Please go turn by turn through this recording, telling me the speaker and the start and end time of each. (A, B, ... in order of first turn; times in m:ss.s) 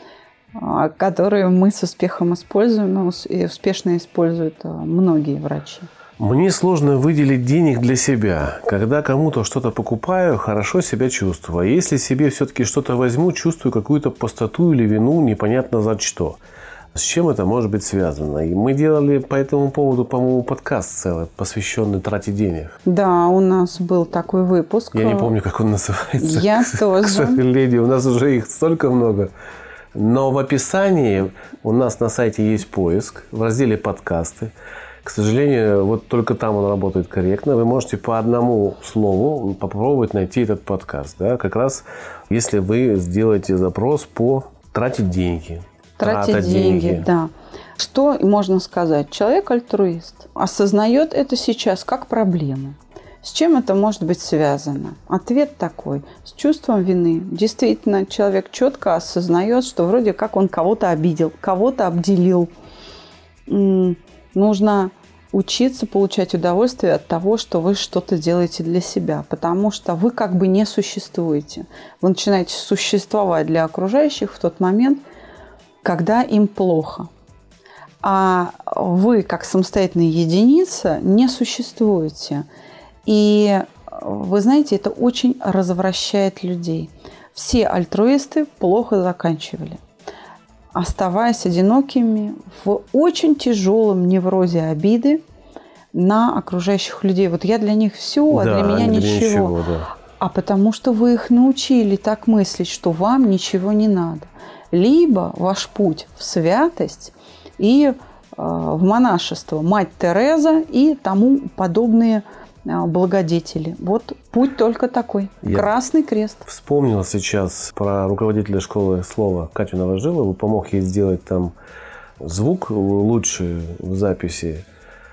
0:00.6-0:05.9 A
0:06.2-0:16.4 B
0:16.9-0:22.8 B
0:22.8-0:25.3 A
0:24.9-0:29.3 B
0:26.2-0:27.4 A
0:29.9-0:34.5 B
0:35.0-0:47.1 B
0:46.0-1:02.5 A
1:03.5-1:15.0 A
1:15.8-1:17.1 A
1:18.0-1:22.4 A
1:23.0-1:29.8 A
1:30.7-1:35.2 A
1:35.9-1:39.5 A
1:38.3-1:39.9 B
1:40.2-1:56.4 A
1:55.4-1:55.7 B
1:56.4-2:01.5 B
2:02.2-2:04.6 B